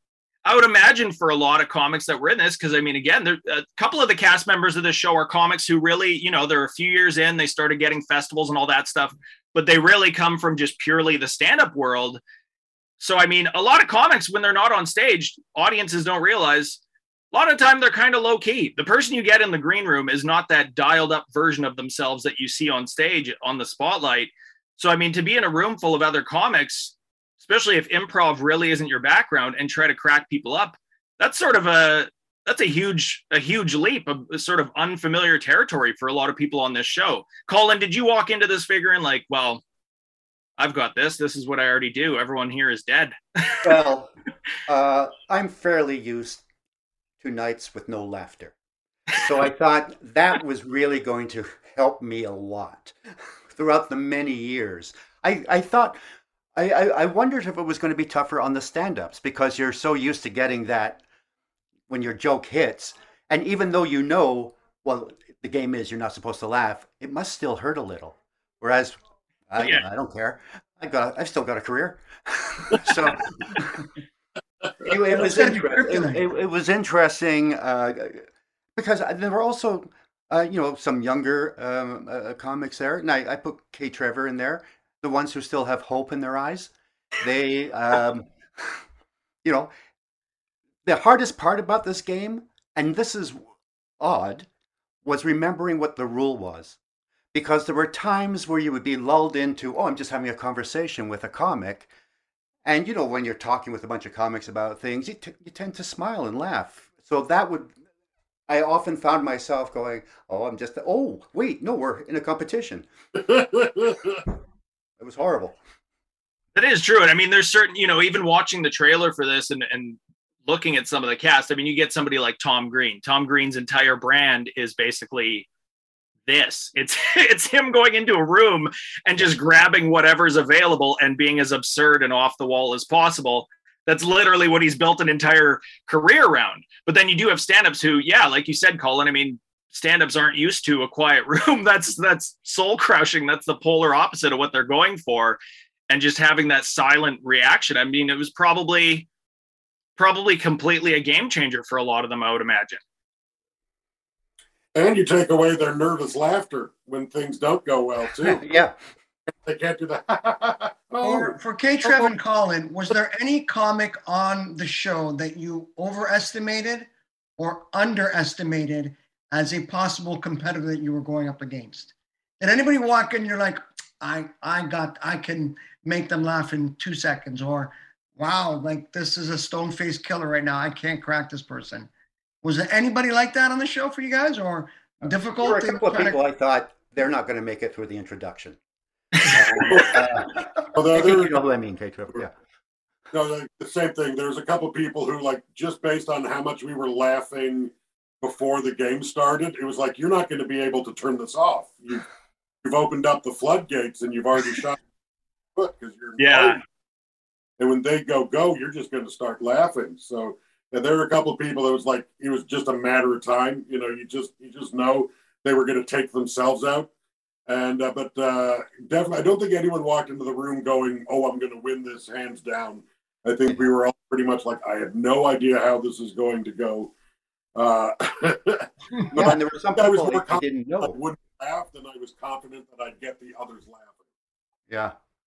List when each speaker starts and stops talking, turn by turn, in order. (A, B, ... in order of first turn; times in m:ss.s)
0:00.4-0:12.2 A
0:13.0-0:16.8 A
0:17.3-0:39.6 A
0:40.6-0:43.6 A
0:43.6-0:44.1 B
0:44.7-0:46.4 B
0:47.2-0:48.5 B
0:49.1-0:53.0 B
0:53.5-0:56.0 B
0:56.5-1:01.0 B
1:01.9-1:09.0 B
1:09.5-1:13.9 B
1:14.8-1:28.8 B
1:15.1-1:16.2 C
1:29.4-1:29.7 B
1:30.8-1:33.5 B
1:34.0-1:34.5 B
1:35.0-1:36.8 B
1:37.3-1:41.9 B
1:42.6-1:47.7 B
1:48.5-1:52.9 B
1:53.2-1:54.2 D
1:55.0-1:55.6 B
1:56.5-2:05.5 A
2:06.3-2:29.1 A
2:30.0-2:32.8 A
2:34.7-2:38.4 D
2:38.2-2:38.7 B
2:39.4-2:42.1 D
2:41.0-3:01.9 C
3:02.4-3:06.2 C
3:05.0-3:08.6 B
3:09.2-3:12.3 B
3:09.7-3:10.0 D
3:10.7-3:11.3 D
3:13.1-3:22.0 D
3:22.6-3:24.8 D
3:25.6-3:26.6 D
3:26.2-3:26.6 A
3:27.6-3:36.9 D
3:37.5-3:46.9 D
3:47.6-3:54.0 D
3:49.1-3:51.0 B
3:54.7-3:54.9 B